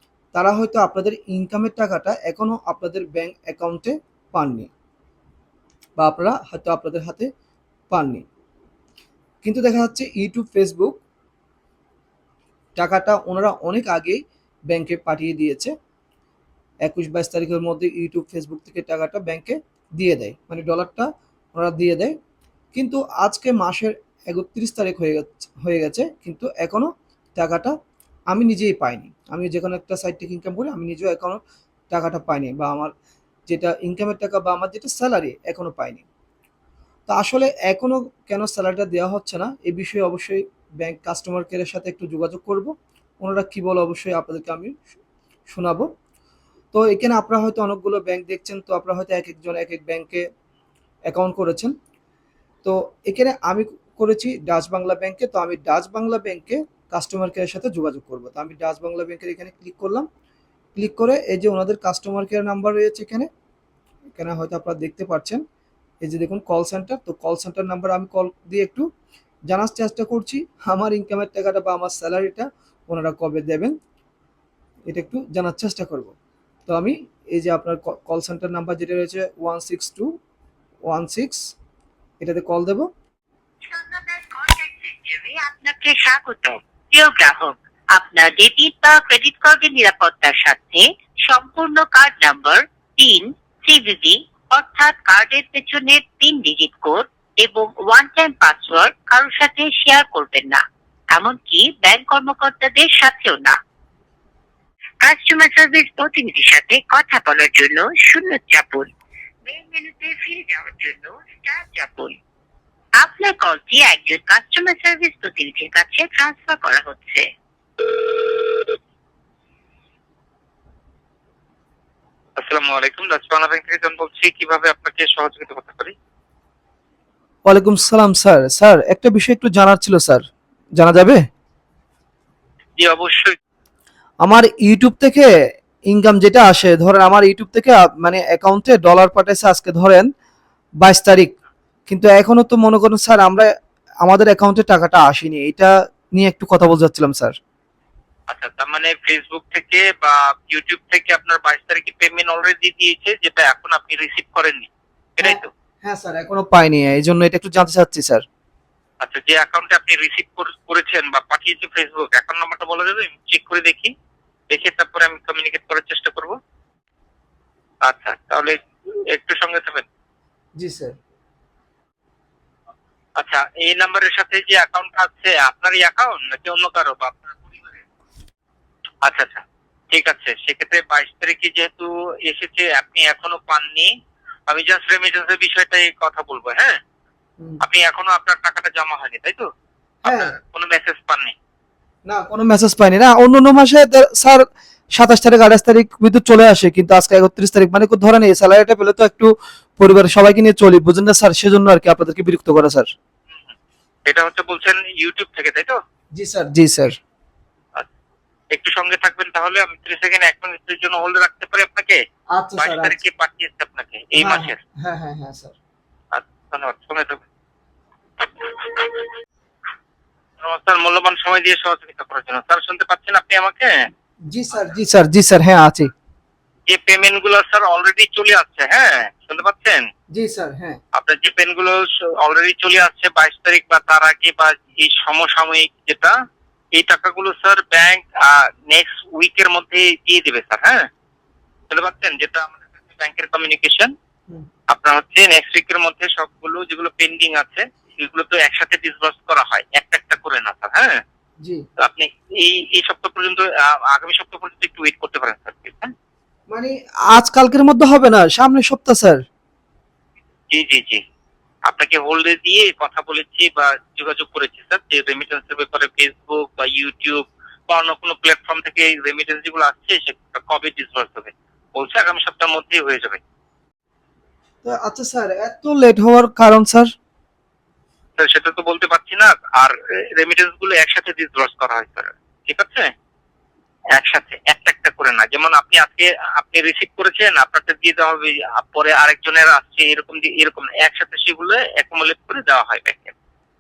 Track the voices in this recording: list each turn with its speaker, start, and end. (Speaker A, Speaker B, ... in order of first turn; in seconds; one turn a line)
Speaker A: 0.3-4.7
Speaker A: 6.0-7.3
Speaker A: 7.9-8.2
Speaker A: 9.4-11.0
Speaker A: 12.8-15.7
Speaker A: 16.8-22.1
Speaker A: 22.7-27.7
Speaker A: 28.3-31.4
Speaker A: 31.9-32.9
Speaker A: 33.5-36.0
Speaker A: 37.1-44.8
Speaker A: 45.5-45.9
Speaker A: 46.7-50.2
Speaker A: 51.1-51.7
Speaker A: 52.6-60.1
Speaker A: 60.8-63.3
Speaker A: 64.2-65.4
Speaker A: 66.0-68.8
Speaker A: 69.5-73.7
Speaker A: 74.9-76.1
Speaker A: 76.7-80.1
Speaker A: 80.9-81.5
Speaker A: 82.2-82.9
Speaker B: 83.7-100.6
Speaker B: 101.1-103.6
Speaker B: 105.0-108.9
Speaker B: 109.4-112.2
Speaker B: 113.0-117.3
Speaker C: 122.4-125.9
Speaker A: 127.5-130.2
Speaker A: 130.8-131.2
Speaker C: 132.8-133.3
Speaker A: 134.2-135.3
Speaker A: 135.9-140.1
Speaker A: 140.8-141.3
Speaker A: 141.9-143.5
Speaker A: 144.0-147.3
Speaker C: 148.3-155.5
Speaker A: 155.2-158.2
Speaker C: 159.0-163.9
Speaker C: 164.5-166.3
Speaker C: 167.9-168.6
Speaker C: 169.1-169.8
Speaker A: 170.6-170.9
Speaker C: 173.2-177.8
Speaker C: 179.1-183.9
Speaker C: 184.5-186.8
Speaker C: 187.6-189.5
Speaker C: 190.0-191.3
Speaker A: 190.1-190.3
Speaker A: 192.1-194.4
Speaker A: 195.0-202.9
Speaker C: 204.1-205.8
Speaker A: 206.2-206.9
Speaker C: 208.5-212.0
Speaker A: 212.3-213.0
Speaker C: 212.6-214.6
Speaker A: 214.2-215.5
Speaker C: 216.1-217.2
Speaker C: 218.4-219.1
Speaker C: 220.4-223.9
Speaker A: 224.3-225.9
Speaker C: 226.7-229.8
Speaker A: 230.1-230.8
Speaker C: 230.9-236.1
Speaker C: 236.7-240.9
Speaker C: 241.7-243.9
Speaker C: 244.7-251.0
Speaker C: 251.8-255.9
Speaker A: 256.5-259.2
Speaker C: 260.5-261.0
Speaker C: 261.7-273.2
Speaker A: 274.6-276.9
Speaker C: 278.2-282.9
Speaker C: 283.9-293.1